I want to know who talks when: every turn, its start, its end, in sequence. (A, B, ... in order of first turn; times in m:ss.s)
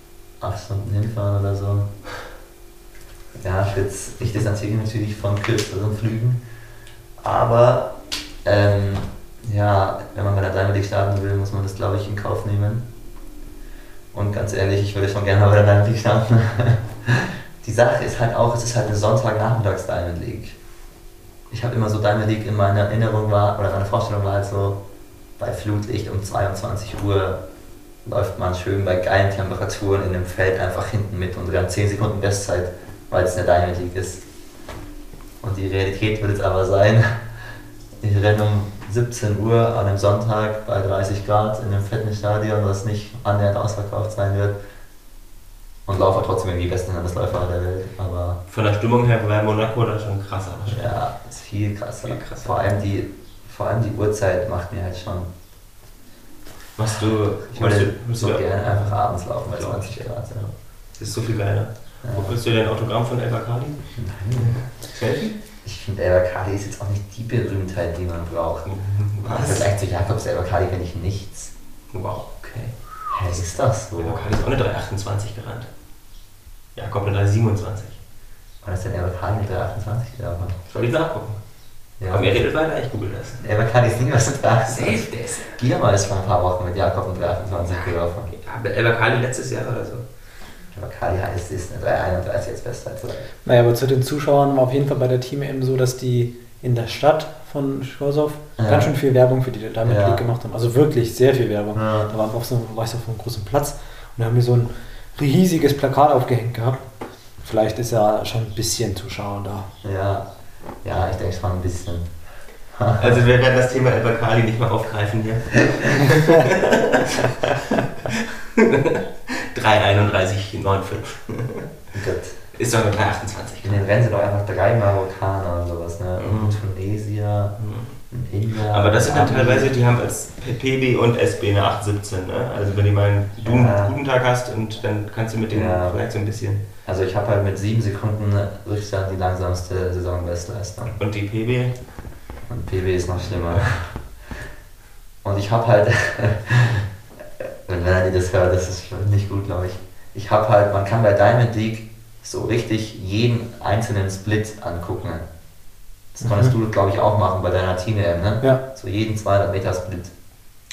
0:00.4-0:01.9 A
0:03.4-0:06.4 A
0:07.2-0:12.8 A
0:14.1-0:20.6 A
0:21.5-0:24.8 A
0:25.4-0:27.4 A
0:28.0-0:34.2 A
0:35.4-0:37.3 A
0:38.0-0:44.6 A
0:45.9-0:48.4 A
0:48.5-0:50.9 B
0:50.7-0:55.3 A
0:52.0-0:52.6 B
0:56.8-1:03.8 B
0:57.5-1:00.4 A
1:02.0-1:02.4 A
1:04.0-1:04.6 A
1:04.4-1:05.3 B
1:05.6-1:08.7 A
1:08.6-1:09.7 B
1:09.2-1:11.5 A
1:11.9-1:12.8 B
1:13.1-1:14.3 A
1:14.0-1:15.7 B
1:16.8-1:18.0 B
1:18.6-1:20.6 A
1:20.7-1:21.4 B
1:22.0-1:22.4 A
1:22.1-1:23.4 B
1:23.4-1:28.3 A
1:24.7-1:25.6 B
1:27.6-1:30.0 B
1:30.7-1:33.3 A
1:33.4-1:46.8 C
1:38.6-1:38.9 A
1:39.8-1:40.2 A
1:41.7-1:42.1 A
1:47.4-1:49.7 C
1:49.8-1:50.2 A
1:50.8-1:52.1 A
1:52.7-1:53.2 A
1:53.0-2:01.7 B
2:01.9-2:02.4 A
2:02.5-2:03.8 B
2:03.6-2:07.6 A
2:06.2-2:06.6 B
2:07.6-2:07.9 B
2:08.1-2:09.7 A
2:08.7-2:16.6 B
2:13.4-2:13.9 A
2:15.5-2:16.0 A
2:16.8-2:21.0 A
2:21.0-2:21.8 B
2:22.5-2:23.9 A
2:25.2-2:26.9 A
2:27.4-2:35.2 A
2:36.1-2:40.1 A
2:36.2-2:36.5 C